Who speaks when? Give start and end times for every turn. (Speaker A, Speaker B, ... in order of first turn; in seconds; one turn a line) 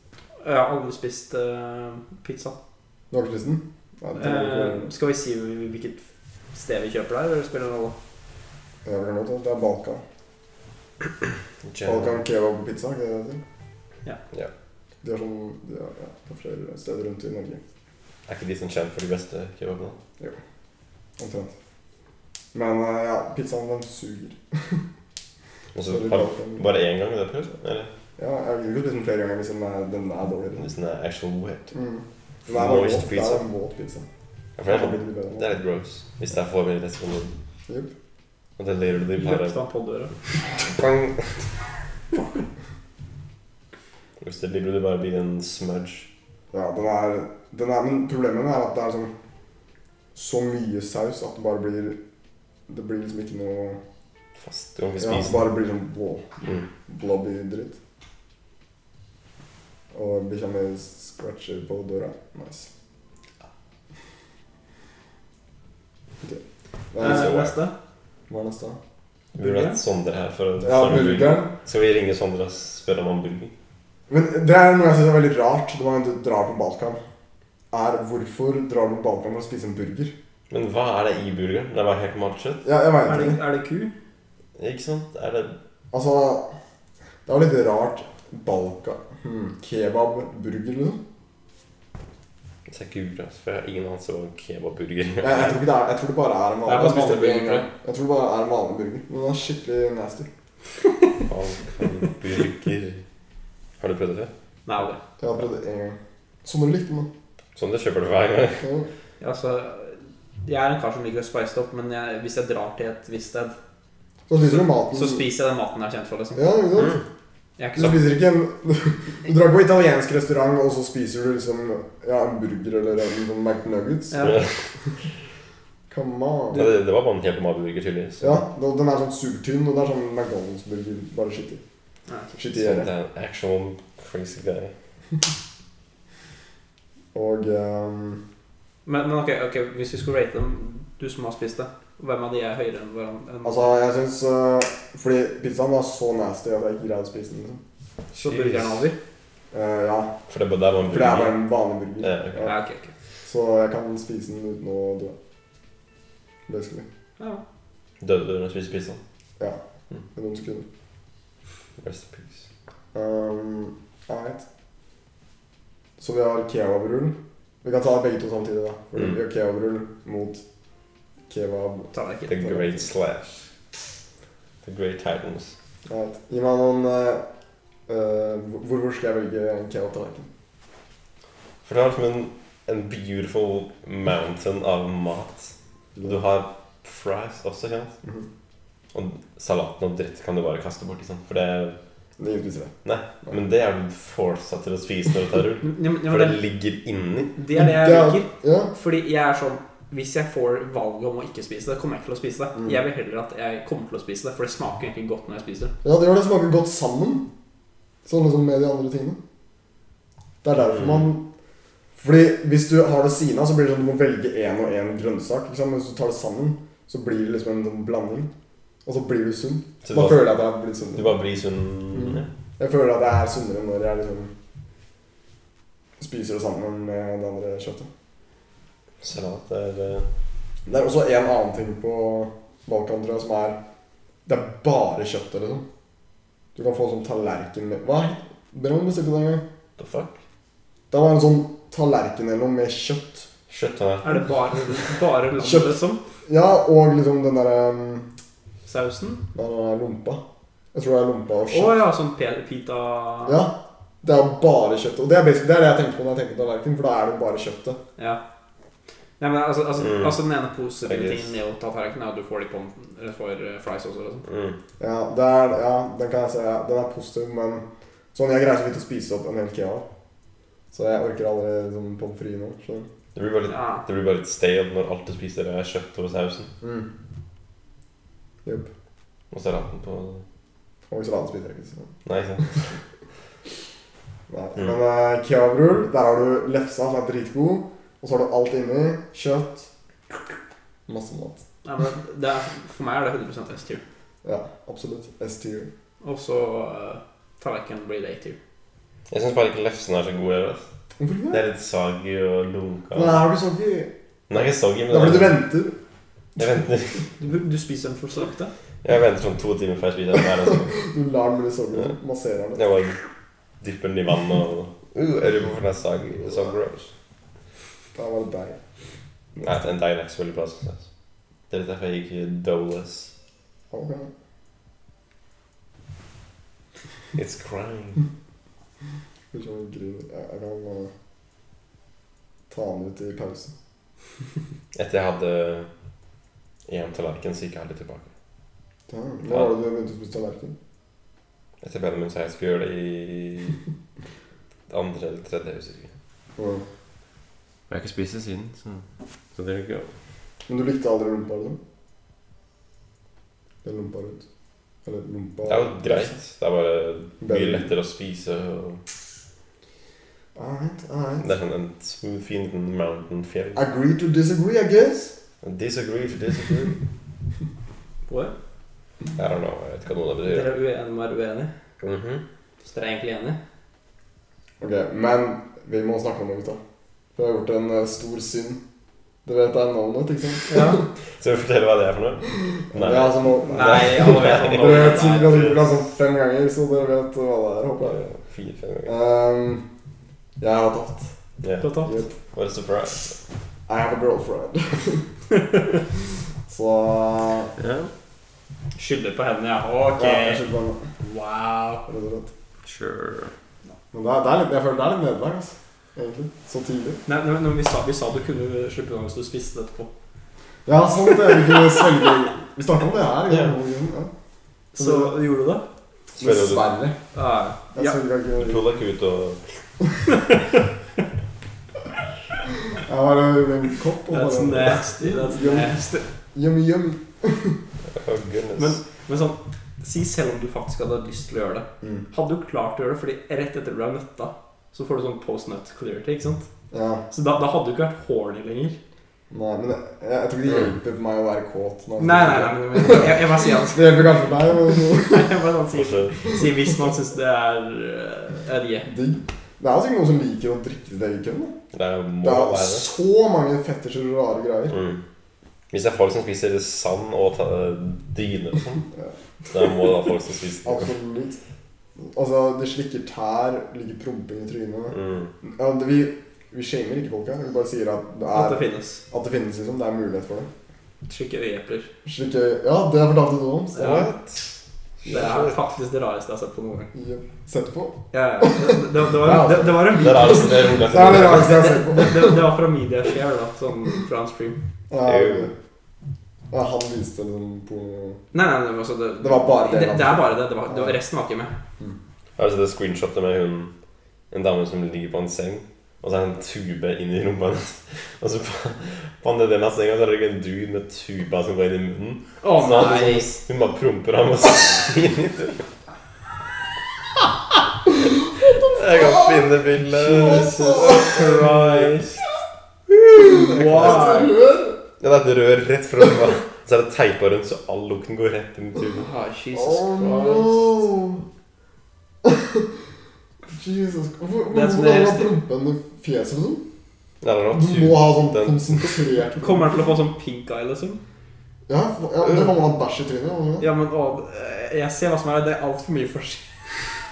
Speaker A: 0.4-2.5
Speaker B: 3.1-4.9
Speaker A: 4.2-8.0
Speaker B: 8.8-10.0
Speaker C: 11.6-12.2
Speaker B: 11.8-13.4
Speaker B: 15.0-17.6
Speaker C: 18.3-20.0
Speaker B: 21.2-21.5
Speaker B: 22.5-24.8
Speaker C: 25.7-27.9
Speaker B: 25.9-26.6
Speaker B: 28.2-30.6
Speaker C: 30.6-31.7
Speaker B: 31.7-34.1
Speaker C: 32.5-33.4
Speaker C: 34.6-37.3
Speaker B: 34.6-35.5
Speaker C: 38.6-39.6
Speaker A: 39.1-40.1
Speaker C: 40.6-41.3
Speaker C: 44.2-46.1
Speaker B: 46.5-49.1
Speaker B: 50.1-52.0
Speaker B: 52.7-53.8
Speaker C: 54.4-55.5
Speaker B: 55.0-56.2
Speaker B: 56.9-57.8
Speaker B: 59.9-62.7
Speaker B: 66.9-67.3
Speaker A: 67.0-67.7
Speaker C: 67.0-67.5
Speaker B: 68.3-68.8
Speaker A: 69.3-69.8
Speaker C: 69.4-73.5
Speaker B: 70.6-71.5
Speaker B: 74.1-77.0
Speaker B: 77.7-80.1
Speaker C: 80.5-82.6
Speaker B: 82.6-83.4
Speaker A: 83.0-83.9
Speaker C: 84.6-85.5
Speaker B: 85.9-86.5
Speaker B: 87.2-91.0
Speaker C: 92.7-95.6
Speaker B: 95.2-100.3
Speaker A: 96.7-97.7
Speaker C: 101.3-103.0
Speaker C: 103.8-104.3
Speaker A: 104.7-105.0
Speaker B: 105.2-107.1
Speaker C: 107.5-108.6
Speaker B: 108.6-108.9
Speaker A: 109.2-113.5
Speaker B: 114.3-115.2
Speaker A: 114.4-116.4
Speaker B: 116.3-117.0
Speaker C: 116.8-117.0
Speaker A: 117.6-118.0
Speaker B: 117.8-124.3
Speaker A: 124.1-124.4
Speaker C: 124.2-124.5
Speaker B: 125.9-126.7
Speaker C: 126.5-128.4
Speaker B: 128.2-131.6
Speaker A: 132.1-132.3
Speaker B: 132.3-132.9
Speaker C: 132.5-134.7
Speaker B: 137.1-138.2
Speaker A: 138.8-143.7
Speaker B: 143.4-147.6
Speaker A: 148.1-149.0
Speaker C: 148.2-148.8
Speaker B: 149.5-150.1
Speaker C: 150.3-151.4
Speaker B: 150.8-152.5
Speaker C: 152.0-152.5
Speaker A: 152.4-152.9
Speaker B: 153.2-155.1
Speaker B: 156.5-156.9
Speaker C: 158.0-159.0
Speaker B: 160.1-160.7
Speaker C: 161.8-162.4
Speaker B: 162.9-164.4
Speaker B: 166.0-170.4
Speaker B: 171.3-172.8
Speaker A: 171.9-172.4
Speaker C: 172.3-173.5
Speaker C: 174.6-175.5
Speaker B: 175.9-177.2
Speaker B: 177.9-180.3
Speaker C: 181.6-187.9
Speaker C: 188.9-191.8
Speaker B: 192.2-193.4
Speaker C: 192.8-197.3
Speaker A: 195.6-196.4
Speaker A: 197.3-205.7
Speaker B: 197.6-198.7
Speaker B: 205.8-207.3
Speaker B: 208.0-209.2
Speaker B: 210.4-211.2
Speaker C: 210.7-211.0
Speaker B: 212.0-218.3
Speaker B: 218.8-221.2
Speaker C: 219.8-220.4
Speaker C: 220.9-222.3
Speaker B: 221.9-224.3
Speaker B: 226.0-227.9
Speaker C: 229.0-230.1
Speaker B: 230.7-233.6
Speaker B: 234.2-235.6
Speaker B: 236.5-239.4
Speaker C: 239.8-240.2
Speaker B: 240.9-243.3
Speaker C: 243.5-244.3
Speaker A: 244.0-246.0
Speaker B: 245.4-248.1
Speaker A: 248.6-249.2
Speaker B: 249.3-250.2
Speaker B: 250.7-251.8
Speaker A: 251.5-253.4
Speaker B: 253.2-257.8
Speaker A: 259.2-264.2
Speaker C: 259.8-260.2
Speaker C: 260.8-261.3
Speaker C: 264.2-264.6
Speaker B: 264.8-269.9
Speaker B: 270.7-272.9
Speaker C: 273.1-276.5
Speaker A: 273.5-273.8
Speaker B: 276.6-276.9
Speaker B: 278.4-278.7
Speaker C: 279.3-280.2
Speaker B: 280.9-281.9
Speaker C: 282.0-282.7
Speaker B: 284.3-289.7
Speaker B: 290.9-291.4
Speaker A: 291.6-293.8
Speaker B: 294.2-295.7
Speaker A: 296.0-298.4
Speaker C: 299.1-300.6
Speaker B: 301.0-301.4
Speaker C: 301.3-303.2
Speaker B: 302.9-303.9
Speaker C: 304.3-305.4
Speaker B: 304.9-305.8
Speaker C: 306.4-307.1
Speaker A: 307.2-308.5
Speaker C: 308.8-310.8
Speaker B: 310.7-312.6
Speaker C: 312.6-313.0
Speaker C: 313.6-316.9
Speaker B: 317.9-318.6
Speaker C: 319.4-320.9
Speaker C: 321.5-323.1
Speaker B: 323.7-324.1
Speaker C: 327.1-328.0
Speaker B: 329.3-330.9
Speaker B: 332.5-333.5
Speaker C: 334.7-335.7
Speaker C: 336.7-338.1
Speaker B: 338.9-340.5
Speaker C: 339.3-339.5
Speaker C: 341.6-343.6
Speaker C: 344.7-345.9
Speaker B: 346.4-346.6
Speaker C: 347.7-349.9
Speaker B: 350.5-351.6
Speaker B: 353.6-354.2
Speaker B: 354.8-356.1
Speaker C: 355.4-358.8
Speaker B: 357.2-357.7
Speaker B: 360.4-361.2
Speaker C: 361.2-363.6
Speaker B: 363.5-365.1
Speaker C: 365.4-366.8
Speaker A: 368.1-368.3
Speaker C: 369.2-370.5
Speaker A: 370.2-371.5
Speaker C: 371.8-372.2
Speaker A: 372.6-373.4
Speaker B: 374.6-376.6
Speaker B: 377.1-378.6
Speaker B: 379.2-380.9
Speaker A: 380.5-380.8
Speaker C: 381.1-385.7
Speaker B: 382.7-388.0
Speaker A: 383.5-385.5
Speaker C: 387.8-388.9
Speaker B: 388.9-389.6
Speaker B: 390.4-391.1
Speaker C: 391.4-391.7
Speaker A: 391.6-392.0
Speaker B: 391.8-392.1
Speaker C: 392.3-393.1
Speaker B: 393.7-395.0
Speaker B: 396.5-397.5
Speaker C: 397.6-397.9
Speaker A: 398.8-400.4
Speaker B: 400.0-400.8
Speaker A: 401.0-401.9
Speaker B: 401.9-402.3
Speaker C: 402.6-403.3
Speaker B: 403.9-407.0
Speaker A: 407.1-409.9
Speaker B: 410.6-414.1
Speaker A: 411.1-411.9
Speaker C: 413.3-413.5
Speaker A: 414.7-415.6
Speaker B: 414.8-415.1
Speaker C: 416.1-416.7
Speaker B: 416.2-417.0
Speaker A: 417.1-418.0
Speaker B: 417.7-418.6
Speaker C: 418.4-419.4
Speaker A: 420.1-420.4
Speaker B: 422.7-425.7
Speaker A: 424.1-426.1
Speaker B: 426.3-427.6
Speaker C: 427.9-428.8
Speaker A: 428.6-436.5
Speaker B: 436.7-437.0
Speaker A: 437.1-438.8
Speaker B: 439.3-445.3
Speaker A: 442.0-444.1
Speaker A: 444.7-448.9
Speaker C: 445.7-446.1
Speaker B: 448.8-451.6
Speaker C: 451.7-452.9
Speaker B: 452.2-454.8
Speaker C: 454.7-455.0
Speaker C: 455.7-458.8
Speaker C: 459.5-460.9
Speaker B: 460.6-461.4
Speaker B: 462.0-470.5
Speaker C: 464.9-465.3
Speaker A: 468.3-469.0
Speaker A: 471.0-471.9
Speaker B: 472.0-474.0
Speaker A: 473.7-474.1
Speaker C: 473.8-474.4
Speaker C: 475.0-475.6
Speaker A: 475.0-476.9
Speaker B: 476.9-482.4
Speaker A: 478.1-480.7
Speaker C: 479.9-481.8
Speaker A: 481.3-484.6
Speaker B: 484.9-485.5
Speaker C: 485.0-485.5
Speaker B: 486.5-488.2
Speaker A: 488.3-491.5
Speaker B: 489.2-490.9
Speaker C: 492.4-493.7
Speaker C: 494.3-505.6
Speaker A: 502.4-503.4
Speaker C: 508.6-512.0
Speaker B: 508.7-509.4
Speaker A: 509.9-512.2
Speaker B: 510.1-511.2
Speaker A: 513.1-514.3
Speaker B: 513.2-514.8
Speaker C: 513.7-514.1
Speaker C: 515.0-519.1
Speaker A: 519.0-520.6
Speaker B: 519.5-521.2
Speaker B: 522.2-522.7
Speaker B: 523.5-526.6
Speaker A: 524.5-525.3
Speaker C: 527.2-529.0
Speaker B: 527.5-529.7
Speaker A: 529.4-531.0
Speaker B: 531.7-533.7
Speaker A: 533.6-536.9